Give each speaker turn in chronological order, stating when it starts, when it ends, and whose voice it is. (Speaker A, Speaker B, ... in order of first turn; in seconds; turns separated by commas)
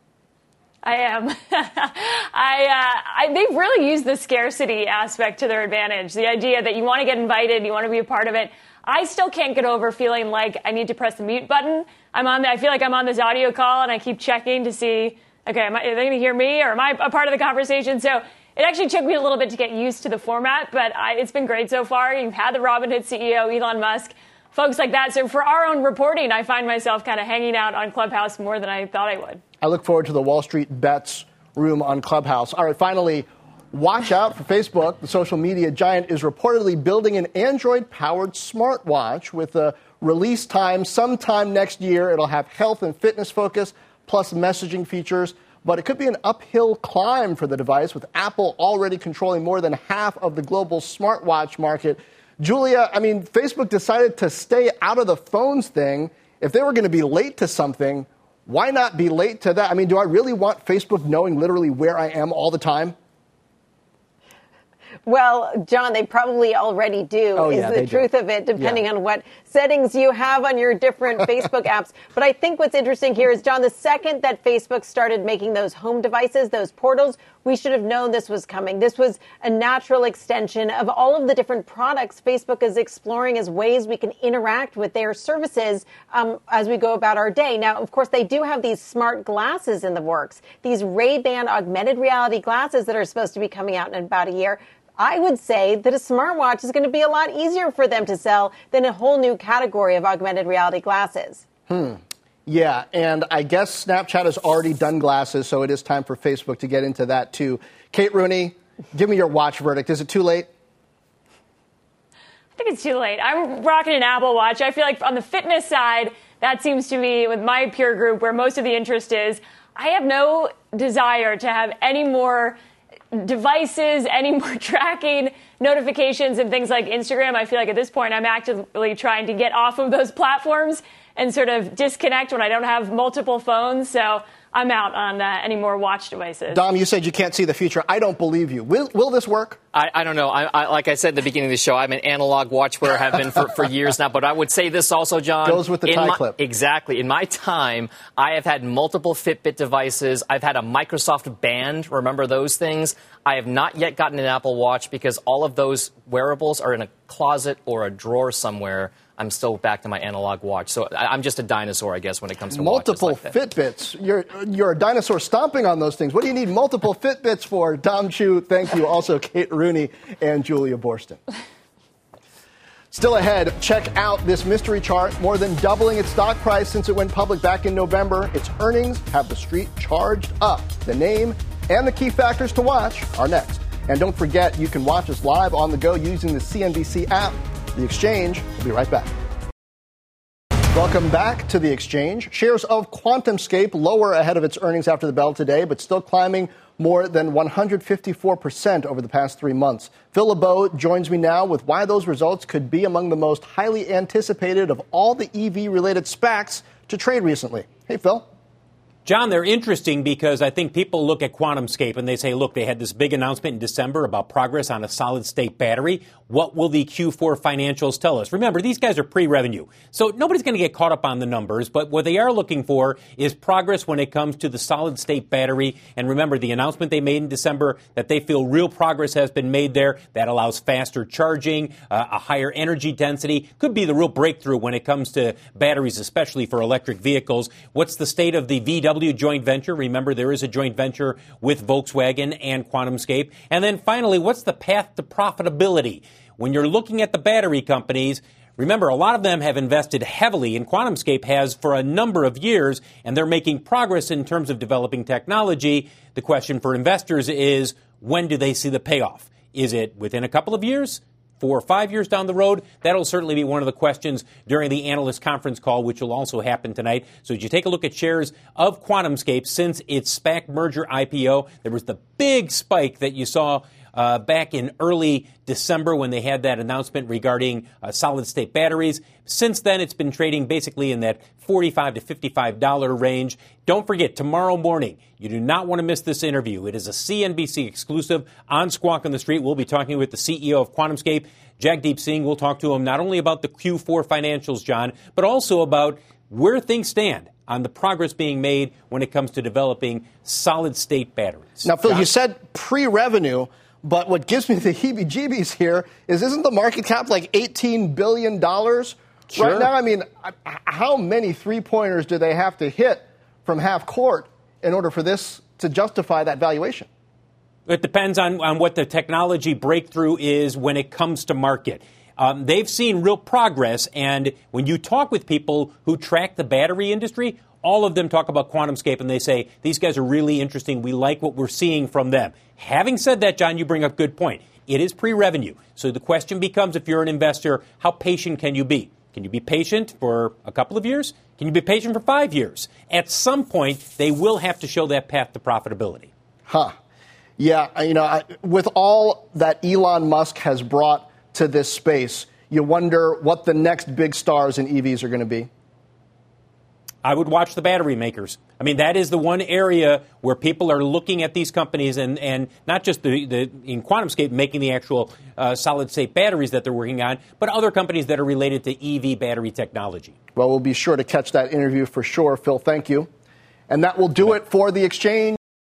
Speaker A: 0.8-29.4, Speaker B: 29.6-63.0, Speaker C: 65.1-101.5, Speaker B: 67.3-68.8, Speaker B: 101.7-110.5, Speaker A: 112.6-122.6, Speaker A: 123.1-136.6, Speaker B: 136.5-139.6, Speaker D: 139.7-163.3, Speaker B: 145.4-146.4, Speaker B: 162.5-171.2, Speaker B: 172.9-189.1, Speaker B: 190.7-208.3, Speaker E: 209.1-302.1, Speaker B: 301.6-316.9, Speaker E: 317.7-346.1, Speaker B: 346.5-346.7, Speaker B: 347.4-355.5, Speaker E: 357.0-370.1, Speaker B: 370.3-373.1, Speaker B: 373.7-375.4